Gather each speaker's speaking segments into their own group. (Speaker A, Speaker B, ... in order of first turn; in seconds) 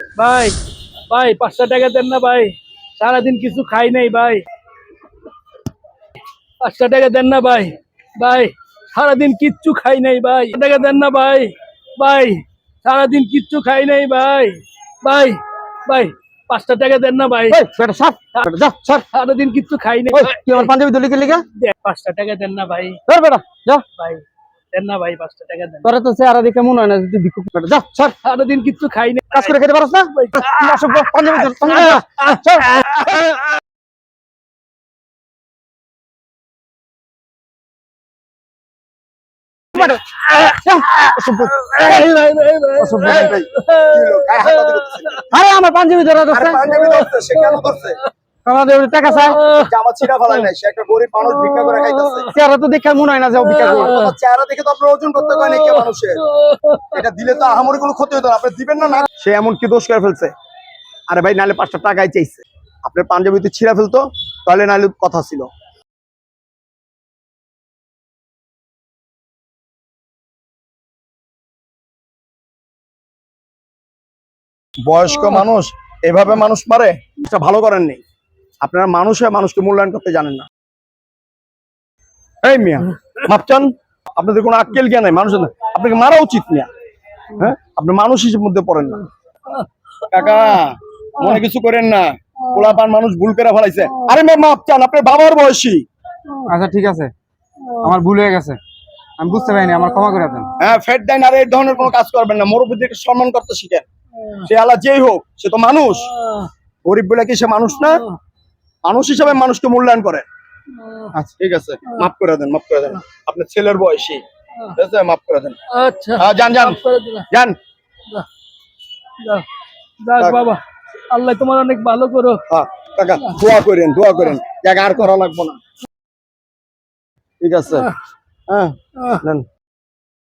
Speaker A: 0.1-0.6, 1.1-4.5, 6.6-17.6, 19.1-20.7, 21.5-23.0, 24.0-25.9, 28.2-29.6, 30.1-33.1, 39.8-45.2, 46.7-48.1, 49.1-49.7, 51.3-52.3, 53.4-54.1, 55.2-57.1, 97.7-97.9, 99.5-100.3, 104.2-104.5, 106.0-106.5, 107.9-108.2, 110.8-111.1, 115.7-117.3, 120.0-122.4, 127.7-127.9, 129.0-129.2
Speaker B: 17.5-19.1, 20.1-21.4, 23.1-23.9, 25.8-28.2, 29.3-33.1, 39.7-41.5, 42.8-43.4, 45.3-46.8, 48.5-49.4, 52.3-54.0, 96.5-97.1, 97.8-98.6, 99.2-100.5
Speaker C: 43.0-45.3, 46.3-48.0, 49.5-52.3, 53.6-56.2, 56.9-60.3, 61.1-65.5, 74.8-78.0, 78.6-80.5, 82.4-86.7, 87.4-89.0, 90.1-95.8, 100.6-103.9, 104.5-106.1, 106.8-108.0, 108.8-110.3, 111.4-114.2, 114.8-115.6, 116.2-116.8, 117.3-117.6, 120.2-120.4, 122.5-125.6, 127.4-127.9, 128.5-129.5